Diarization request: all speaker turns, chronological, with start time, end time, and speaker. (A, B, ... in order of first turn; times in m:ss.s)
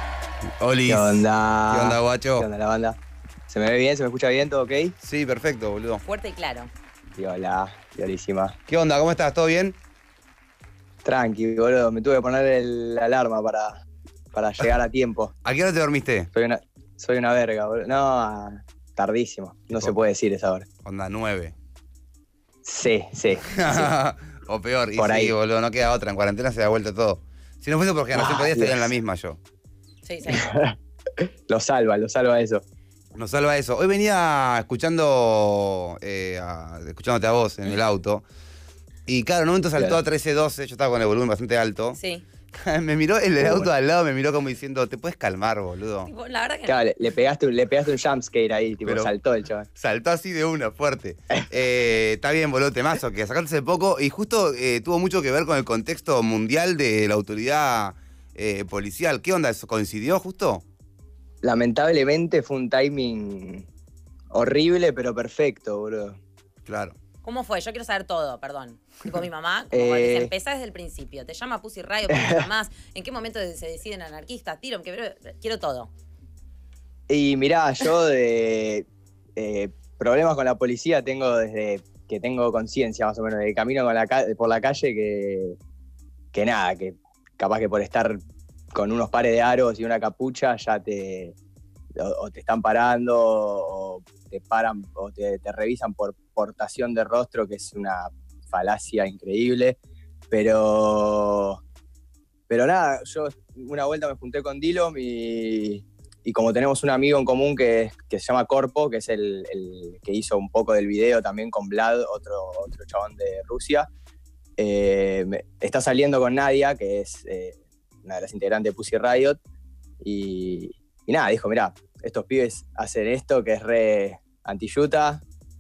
0:00.6-0:02.5 A
0:00.9-0:03.0 B
0:03.5-0:05.0 B
0:05.0-0:06.0 A
0:06.0-0:06.7 C
0:07.2-0:08.6 B
0:08.7-0:09.8 A
0:11.0-0:13.8 B
0:14.3-0:15.3 B
0:15.4-0:16.3 A
0:16.3-0:20.7 B
0:20.8-0:21.6 A
0:22.6-0:23.9 B
0:23.4-0:29.4 A
0:25.0-0:25.3 B
0:28.1-0:28.9 B
0:30.0-0:30.5 C
0:30.3-0:32.6 B
0:33.1-0:38.2 A
0:39.1-0:42.0 A
0:41.9-0:42.2 C
0:42.5-0:46.1 A
0:43.4-0:43.7 B
0:46.1-0:46.8 C
0:46.7-0:49.7 B
0:48.8-0:49.1 A
0:49.8-1:00.6 A
1:01.4-1:03.7 B
1:04.3-1:06.2 B
1:06.7-1:07.0 A
1:07.2-1:15.9 C
1:09.7-1:10.3 B
1:12.1-1:12.5 B
1:17.1-1:25.6 B
1:26.3-1:28.2 B
1:28.7-1:31.4 B
1:32.0-1:39.8 B
1:40.3-1:41.6 B
1:42.5-1:53.9 B
1:54.6-1:59.4 B
2:00.0-2:05.2 B